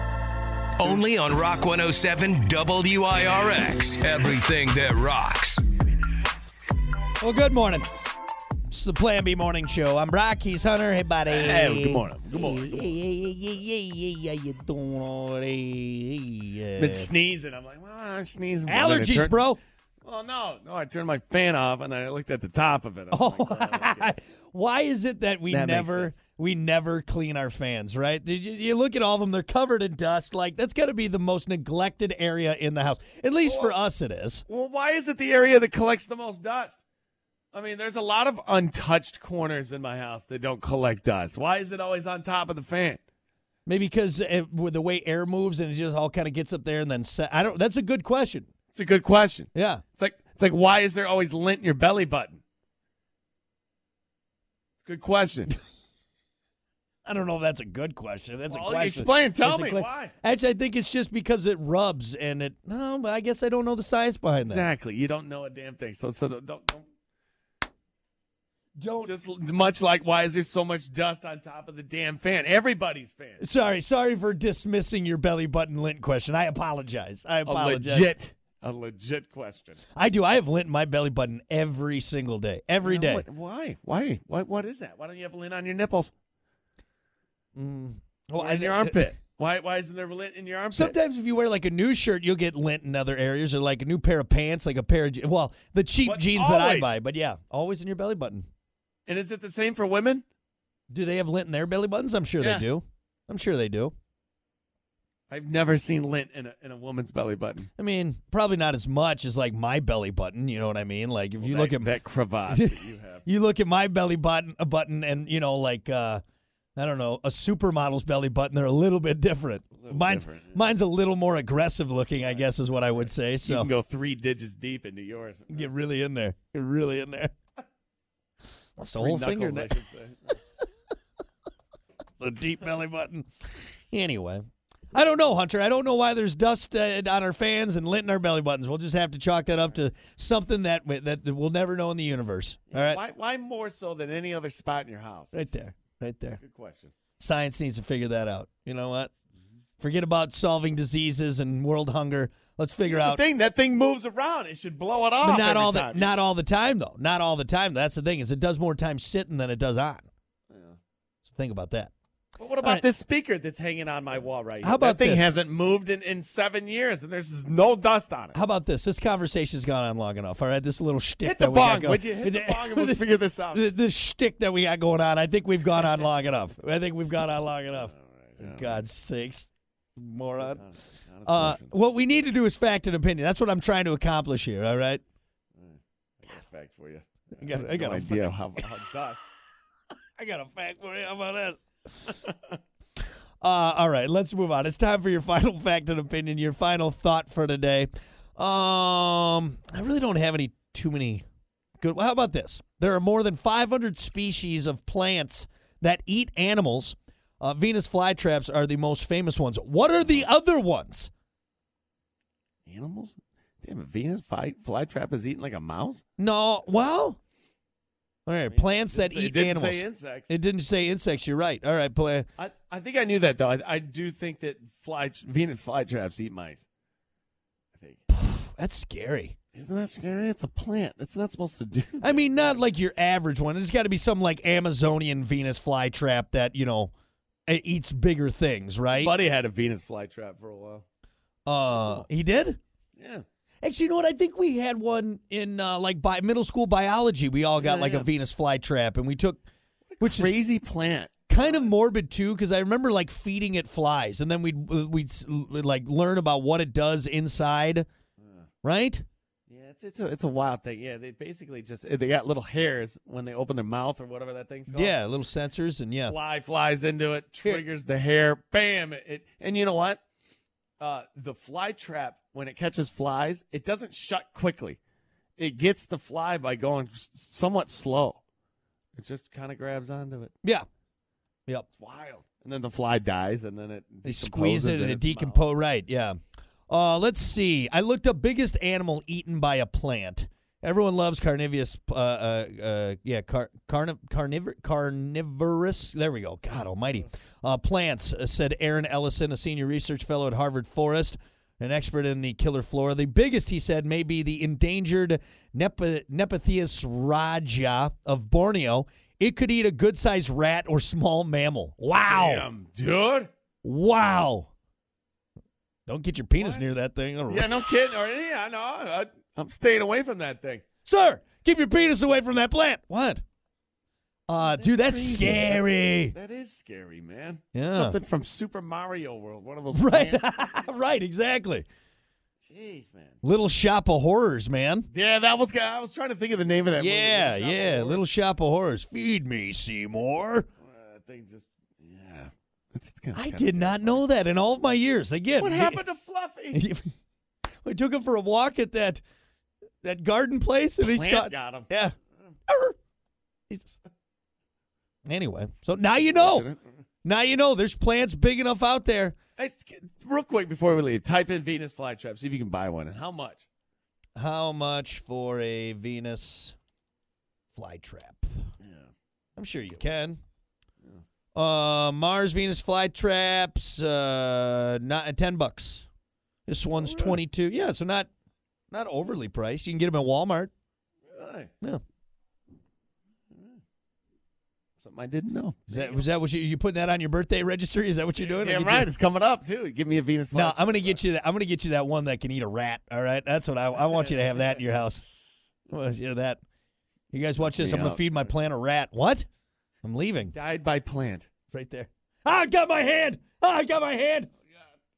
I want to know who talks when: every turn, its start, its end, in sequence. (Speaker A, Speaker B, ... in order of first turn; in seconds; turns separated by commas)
Speaker A: 0.8-5.6, Speaker B: 7.2-7.9, Speaker B: 8.7-17.1, Speaker C: 11.3-12.9, Speaker C: 16.8-19.5, Speaker B: 18.7-19.6, Speaker C: 20.0-24.1, Speaker B: 23.1-34.5, Speaker C: 25.5-26.1, Speaker C: 33.4-33.8, Speaker C: 34.5-36.8, Speaker C: 37.5-43.0, Speaker B: 43.7-48.5, Speaker C: 48.7-52.4, Speaker B: 49.5-49.8, Speaker C: 54.8-55.5, Speaker B: 57.0-64.7, Speaker C: 58.5-60.1, Speaker C: 64.4-66.9, Speaker B: 68.8-69.1, Speaker C: 69.0-73.5, Speaker B: 73.4-78.1, Speaker C: 77.5-79.8, Speaker B: 80.0-83.2, Speaker C: 82.8-86.1, Speaker B: 87.5-89.1, Speaker C: 88.4-91.0, Speaker B: 90.7-98.5, Speaker C: 96.0-97.0, Speaker C: 99.1-100.2, Speaker B: 100.9-103.9, Speaker C: 102.4-102.7, Speaker C: 105.3-107.7, Speaker B: 107.8-112.0, Speaker C: 111.4-113.2, Speaker B: 112.5-116.2, Speaker B: 116.8-123.7, Speaker C: 119.8-120.7, Speaker C: 122.2-125.7, Speaker B: 125.5-127.3, Speaker B: 128.8-129.8, Speaker C: 128.9-130.4, Speaker B: 132.2-133.3, Speaker B: 133.9-143.0, Speaker C: 142.7-145.5, Speaker B: 145.3-146.4, Speaker C: 146.4-146.9, Speaker B: 147.2-149.1, Speaker B: 149.8-153.2, Speaker C: 152.8-156.1, Speaker B: 155.2-160.1, Speaker C: 160.5-160.8, Speaker B: 161.2-161.9, Speaker C: 162.4-168.4, Speaker B: 162.6-162.8, Speaker B: 164.6-165.3, Speaker B: 168.3-180.6, Speaker C: 171.2-173.6, Speaker C: 175.7-176.1, Speaker C: 177.7-178.9, Speaker C: 180.4-181.7, Speaker B: 181.2-185.0, Speaker C: 185.5-189.2, Speaker B: 187.3-188.6, Speaker B: 190.2-192.1, Speaker C: 192.2-192.6, Speaker B: 193.4-201.2, Speaker B: 201.8-211.1, Speaker C: 210.0-210.2, Speaker C: 212.7-216.0, Speaker B: 216.2-217.2, Speaker B: 218.2-222.3, Speaker C: 218.5-220.3, Speaker C: 222.4-226.6, Speaker C: 227.7-228.0, Speaker B: 228.1-229.3, Speaker C: 229.5-232.6, Speaker B: 232.0-236.9, Speaker B: 237.5-239.1, Speaker C: 238.9-240.8, Speaker B: 241.4-242.6, Speaker C: 241.7-242.1, Speaker C: 242.9-243.2, Speaker B: 243.6-249.4, Speaker C: 247.6-248.1, Speaker C: 249.9-251.7, Speaker B: 250.0-250.4, Speaker B: 251.3-257.9, Speaker C: 258.2-258.5, Speaker B: 258.6-259.0, Speaker C: 259.5-265.0, Speaker B: 264.7-266.1, Speaker C: 266.0-270.0, Speaker C: 270.8-274.8, Speaker C: 275.4-278.2, Speaker C: 278.9-280.3, Speaker C: 281.7-285.4, Speaker B: 284.0-286.2, Speaker B: 286.7-312.5, Speaker C: 312.1-313.3, Speaker B: 313.6-314.5, Speaker B: 315.9-317.7, Speaker C: 316.4-316.7, Speaker C: 317.3-320.6, Speaker B: 320.9-323.2, Speaker B: 324.3-326.1, Speaker C: 324.4-330.7, Speaker B: 327.5-328.0, Speaker B: 329.7-331.6, Speaker C: 332.4-333.2, Speaker B: 333.2-334.9, Speaker C: 334.9-338.0, Speaker B: 336.8-340.5, Speaker C: 340.6-344.0, Speaker B: 343.1-345.8, Speaker C: 345.4-346.6, Speaker B: 346.5-346.9, Speaker B: 347.6-349.0, Speaker B: 349.8-351.9, Speaker C: 350.8-351.7, Speaker B: 352.5-352.8, Speaker B: 353.5-353.8, Speaker B: 355.1-356.5, Speaker C: 356.0-356.7, Speaker B: 357.0-359.1, Speaker C: 359.4-363.4, Speaker B: 364.1-366.5, Speaker B: 367.5-368.3, Speaker C: 368.6-368.9, Speaker B: 369.4-370.2, Speaker B: 371.3-375.9, Speaker B: 376.5-378.1, Speaker C: 376.8-377.2, Speaker B: 378.7-380.5, Speaker C: 381.1-381.5, Speaker C: 383.3-383.6, Speaker C: 384.8-386.0, Speaker B: 385.7-388.9, Speaker C: 388.2-391.0, Speaker B: 390.3-395.0, Speaker C: 393.8-394.6, Speaker B: 395.7-396.4, Speaker B: 397.1-399.2, Speaker C: 397.4-398.3, Speaker B: 399.8-400.3, Speaker C: 400.3-401.3, Speaker B: 401.5-404.3